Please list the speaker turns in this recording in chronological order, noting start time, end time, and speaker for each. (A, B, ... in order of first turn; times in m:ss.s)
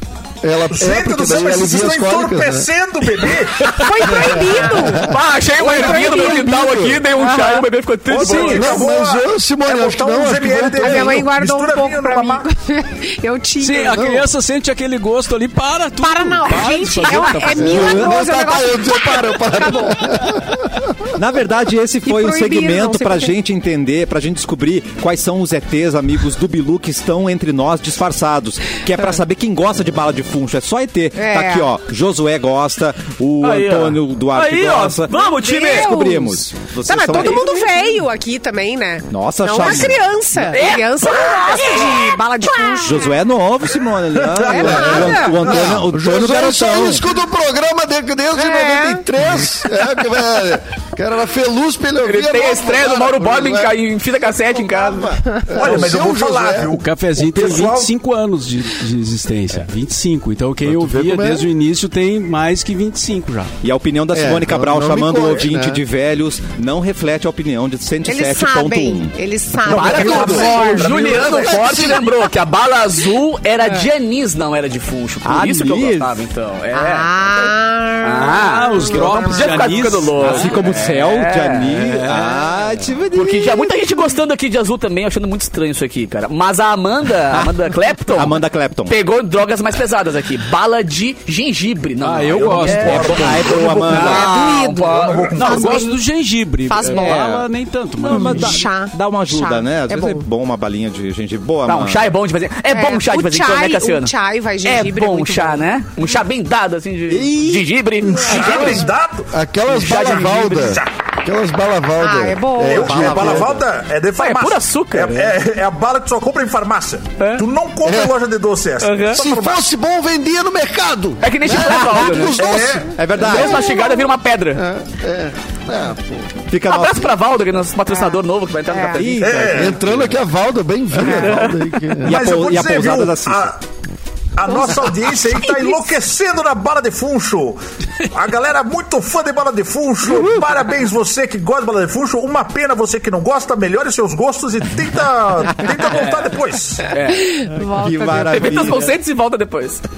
0:00.4-0:02.7 A
0:00.7-0:03.8 B
0:03.7-0:06.6 C
0:04.1-0:07.1 A
0:04.9-0:08.8 D
0:07.1-0:07.7 C
0:08.1-0:12.4 B
0:08.2-0:08.6 E
0:08.5-0:11.3 A
0:10.8-0:14.2 C
0:13.6-0:18.0 E
0:16.0-0:20.4 C
0:17.6-0:20.9 A
0:17.8-0:18.1 F
0:21.1-0:37.9 F
0:22.0-0:23.3 C
0:31.2-0:31.7 C
0:33.4-0:36.0 D
0:35.1-0:43.2 C
0:37.2-0:37.4 D
0:39.1-0:40.0 F
0:40.5-0:42.9 D
0:42.8-0:47.1 F
0:44.2-0:44.7 B
0:44.4-0:45.6 C
0:44.5-0:53.8 A
0:48.4-0:49.0 C
0:52.0-0:55.1 D
0:54.5-0:56.8 A
0:55.5-0:57.9 B
0:56.7-1:03.5 E
1:00.6-1:01.5 A
1:03.6-1:09.1 F
1:04.1-1:05.8 A
1:08.1-1:11.1 C
1:09.7-1:17.1 D
1:09.7-1:11.9 B
1:09.8-1:10.5 A
1:11.1-1:12.1 A
1:15.2-1:16.1 F
1:16.7-1:19.5 C
1:18.0-1:21.7 D
1:18.4-1:20.8 E
1:20.2-1:23.6 F
1:21.7-1:22.5 E
1:23.1-1:33.2 D
1:28.1-1:29.0 F
1:32.0-1:33.6 E
1:32.3-1:34.2 B
1:32.8-1:34.3 F
1:33.8-1:35.8 D
1:33.9-1:36.0 C
1:34.8-1:35.7 B
1:35.4-1:38.7 E
1:36.7-1:37.3 C
1:36.9-1:37.5 F
1:38.0-1:42.1 F
1:38.0-1:40.2 C
1:41.7-1:44.1 D
1:42.7-1:45.6 C
1:44.6-1:48.9 D
1:47.1-1:47.6 F
1:48.0-1:49.3 B
1:48.4-1:48.7 A
1:49.3-1:53.6 A
1:49.7-1:50.8 D
1:49.9-1:50.9 B
1:52.0-1:53.3 C
1:52.6-1:59.6 B
1:52.8-1:53.6 F
1:54.2-1:55.4 D
1:57.2-1:57.5 D
1:57.8-1:58.1 A
1:58.8-1:59.2 D
1:59.1-2:06.4 A
2:01.2-2:02.5 D
2:02.4-2:02.9 B
2:03.0-2:03.7 F
2:03.2-2:04.6 D
2:06.5-2:07.1 F
2:06.7-2:09.6 D
2:07.9-2:09.1 C
2:08.9-2:10.2 F
2:09.2-2:09.8 B
2:09.5-2:12.2 A
2:11.1-2:11.5 D
2:12.0-2:13.6 B
2:12.0-2:13.5 F
2:14.4-2:26.9 B
2:26.9-2:27.5 D
2:27.1-2:28.9 C
2:27.6-2:28.9 F
2:28.3-2:29.8 D